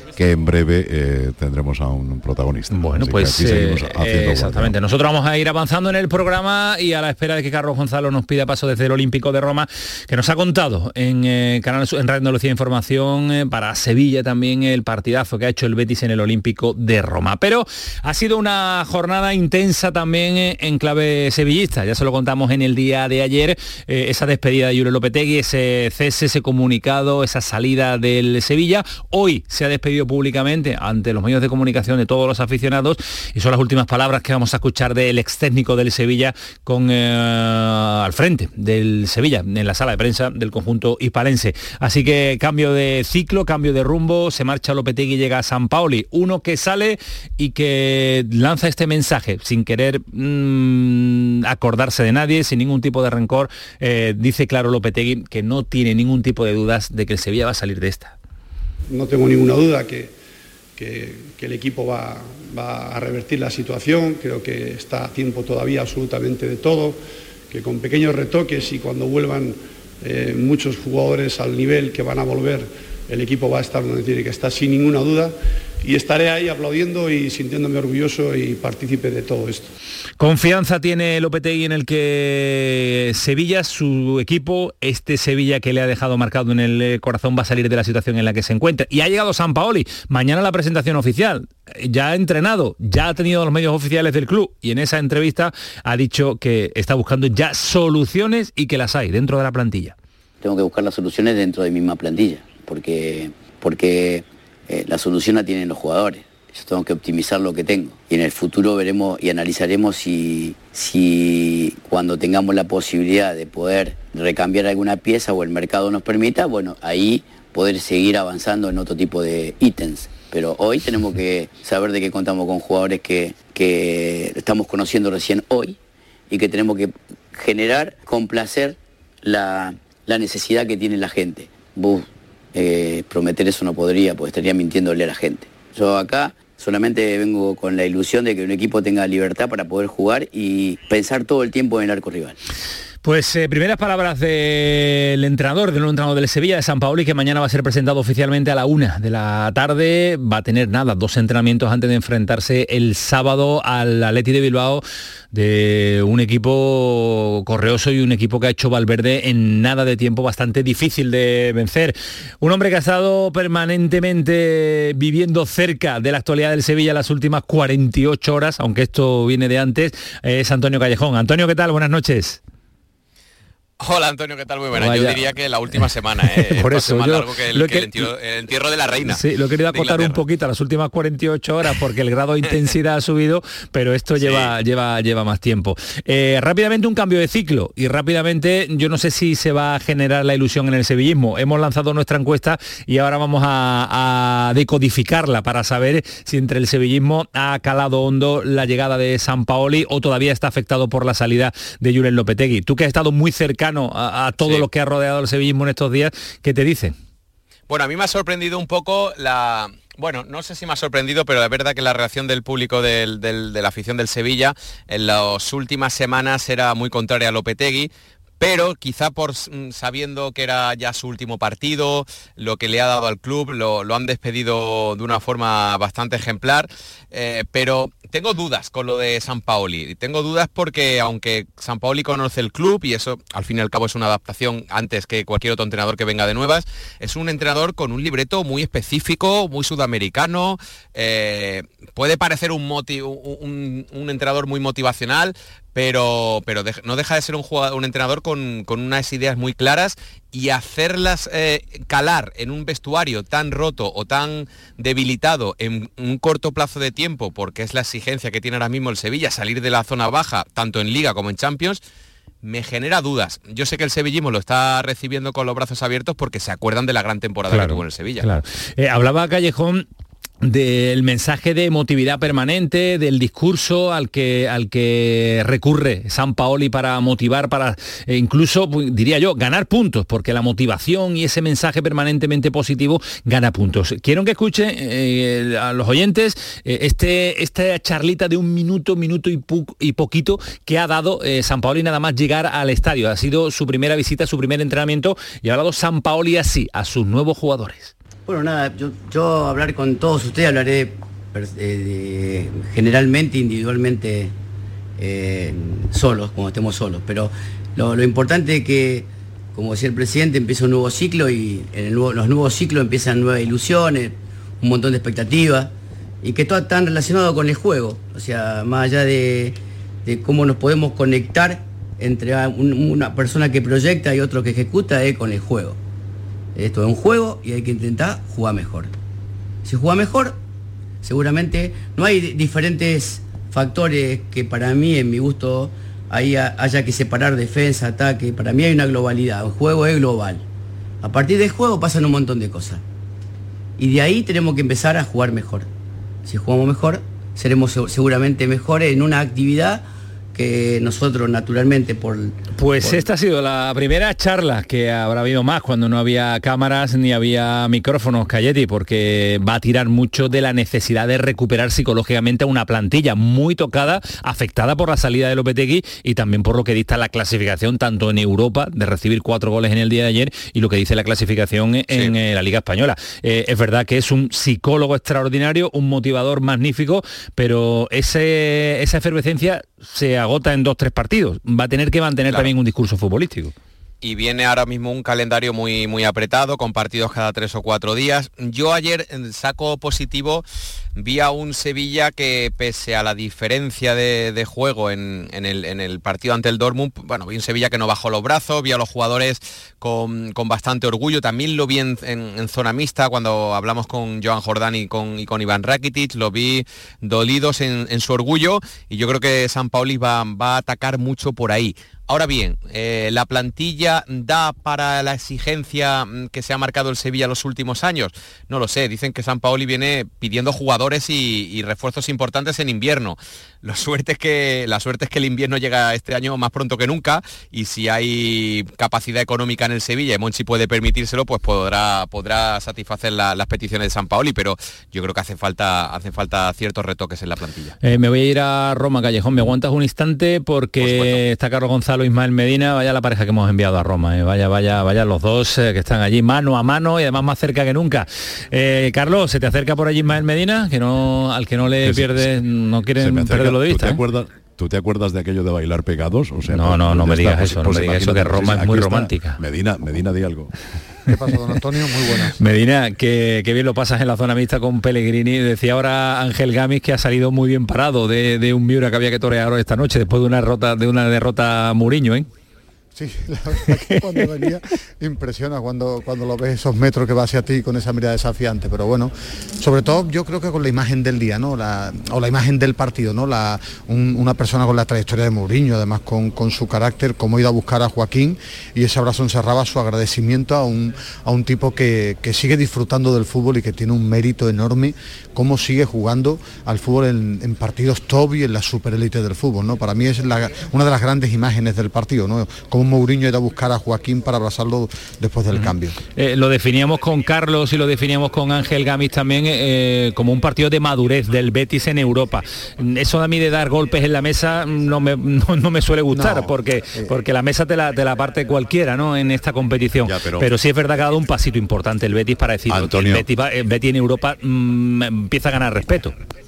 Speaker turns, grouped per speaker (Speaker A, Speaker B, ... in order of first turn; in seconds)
Speaker A: 0.1-4.8, 451.8-452.3, 452.9-460.5, 520.0-520.5, 522.7-523.3
Speaker B: 2.7-58.1, 80.2-99.9, 143.0-172.4, 174.7-175.2, 175.8-178.1, 179.0-206.9, 267.5-269.8, 270.4-297.9, 352.6-383.5, 437.8-454.0, 456.5-459.4, 462.4-472.3, 473.8-474.3, 505.5-526.1
Speaker C: 58.9-60.1, 60.8-67.0, 67.5-79.7
Speaker D: 100.4-125.8, 126.3-142.3
Speaker E: 173.8-180.2, 184.1-184.5, 204.4-204.7, 207.7-261.8, 262.4-268.3, 371.9-372.1, 382.3-382.5, 384.0-390.4, 390.9-437.8, 440.8-441.2
Speaker F: 298.3-304.3, 305.0-315.7, 316.2-325.8, 326.6-328.9, 329.6-330.4, 331.0-340.4, 341.0-342.8, 343.8-345.7, 346.2-353.1
Speaker G: 461.1-462.4, 472.9-505.9, 516.1-517.1